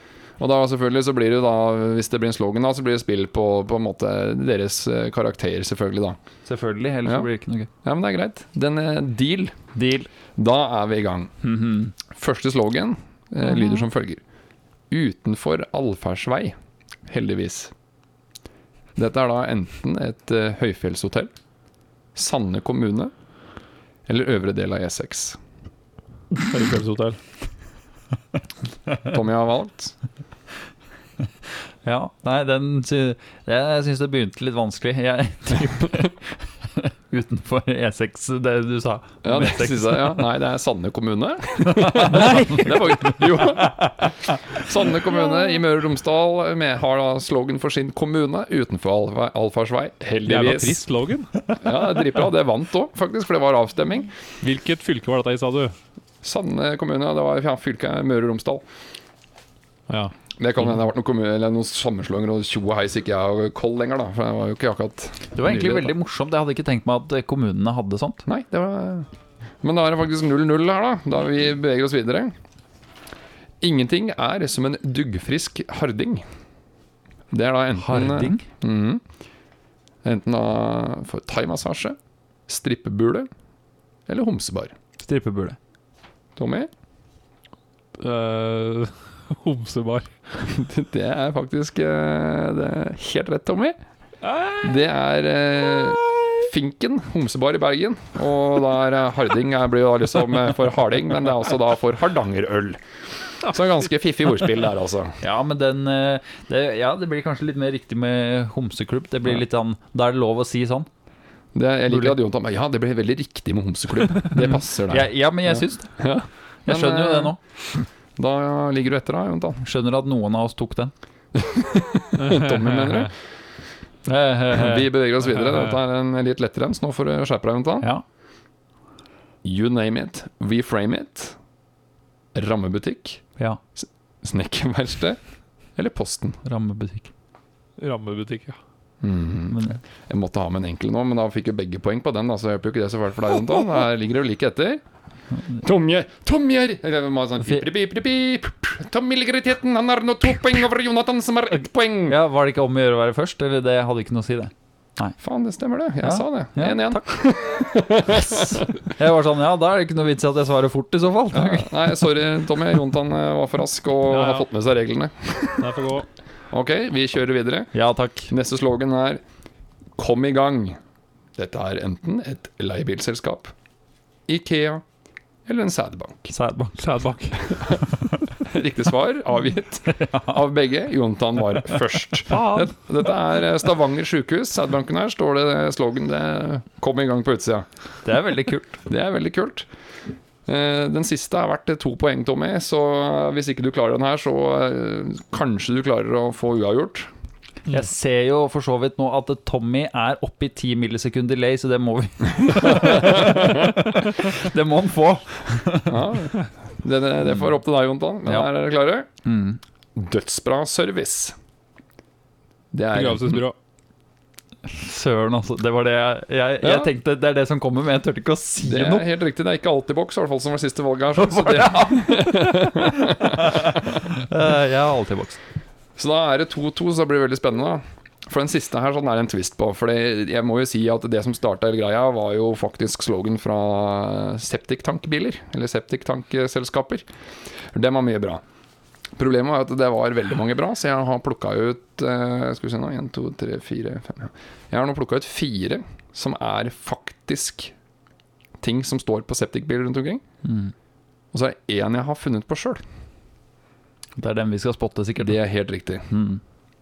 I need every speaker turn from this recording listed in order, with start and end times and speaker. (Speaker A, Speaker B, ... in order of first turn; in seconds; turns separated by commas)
Speaker A: 0.4-6.2, Speaker B: 6.5-7.7, Speaker A: 7.8-9.6, Speaker B: 9.7-10.1, Speaker A: 10.3-11.3, Speaker B: 11.4-11.9, Speaker A: 12.1-14.2, Speaker A: 14.9-16.5, Speaker A: 17.1-17.7, Speaker A: 18.9-21.3, Speaker A: 22.1-23.1, Speaker A: 24.1-25.4, Speaker C: 26.4-27.2, Speaker A: 29.0-29.9, Speaker B: 31.8-40.2, Speaker A: 39.2-50.8, Speaker B: 41.8-44.6, Speaker C: 42.1-43.0, Speaker C: 50.2-51.3, Speaker A: 51.6-54.1, Speaker C: 54.4-55.7, Speaker A: 56.2-58.6, Speaker A: 60.4-65.9, Speaker B: 65.3-68.2, Speaker A: 68.2-69.1, Speaker A: 69.6-72.3, Speaker A: 73.6-76.2, Speaker A: 77.3-79.0, Speaker B: 77.8-78.5, Speaker A: 80.0-83.3, Speaker A: 84.1-84.7, Speaker B: 85.0-85.6, Speaker A: 86.3-86.7, Speaker C: 88.0-90.1, Speaker A: 90.5-93.8, Speaker C: 94.2-94.7, Speaker A: 94.6-102.8, Speaker A: 103.4-105.2, Speaker B: 105.2-110.9, Speaker A: 111.5-117.4, Speaker B: 111.9-112.1, Speaker B: 114.4-116.1, Speaker B: 116.7-117.4, Speaker A: 118.2-119.6, Speaker B: 119.6-120.9, Speaker A: 121.3-123.1, Speaker C: 122.1-123.1, Speaker B: 124.0-124.9, Speaker A: 124.5-127.9, Speaker C: 125.4-125.7, Speaker A: 129.4-131.4, Speaker A: 132.3-135.2, Speaker A: 135.7-136.4, Speaker B: 136.4-137.1, Speaker C: 137.8-138.6, Speaker A: 139.0-144.8, Speaker B: 139.5-139.8, Speaker B: 145.3-145.6, Speaker A: 145.6-152.1, Speaker B: 152.1-155.2, Speaker A: 155.2-158.9, Speaker B: 156.0-157.2, Speaker B: 158.1-162.0, Speaker A: 161.3-165.7, Speaker C: 164.1-164.4, Speaker C: 165.6-166.1, Speaker A: 166.5-167.7, Speaker B: 167.7-168.3, Speaker A: 168.3-169.2, Speaker A: 170.0-170.8, Speaker A: 171.3-173.5, Speaker A: 174.3-174.8, Speaker A: 175.4-176.3, Speaker B: 176.3-176.8, Speaker C: 176.8-177.8, Speaker A: 177.4-177.8, Speaker A: 178.4-187.7, Speaker B: 179.9-180.3, Speaker B: 182.3-182.7, Speaker B: 188.0-188.8, Speaker A: 188.8-189.7, Speaker A: 190.4-197.1, Speaker B: 197.7-206.0, Speaker A: 202.7-203.5, Speaker A: 205.9-209.1, Speaker B: 209.2-209.6, Speaker A: 209.9-211.3, Speaker A: 212.7-213.4, Speaker C: 212.9-213.5, Speaker B: 214.7-219.0, Speaker A: 216.6-216.9, Speaker A: 218.6-224.2, Speaker B: 221.2-222.7, Speaker B: 223.3-225.4, Speaker A: 226.0-237.1, Speaker A: 237.6-238.4, Speaker A: 239.2-247.7, Speaker A: 248.6-250.2, Speaker B: 250.4-250.7, Speaker A: 251.3-252.8, Speaker B: 254.2-255.4, Speaker A: 255.2-256.1, Speaker B: 256.1-256.4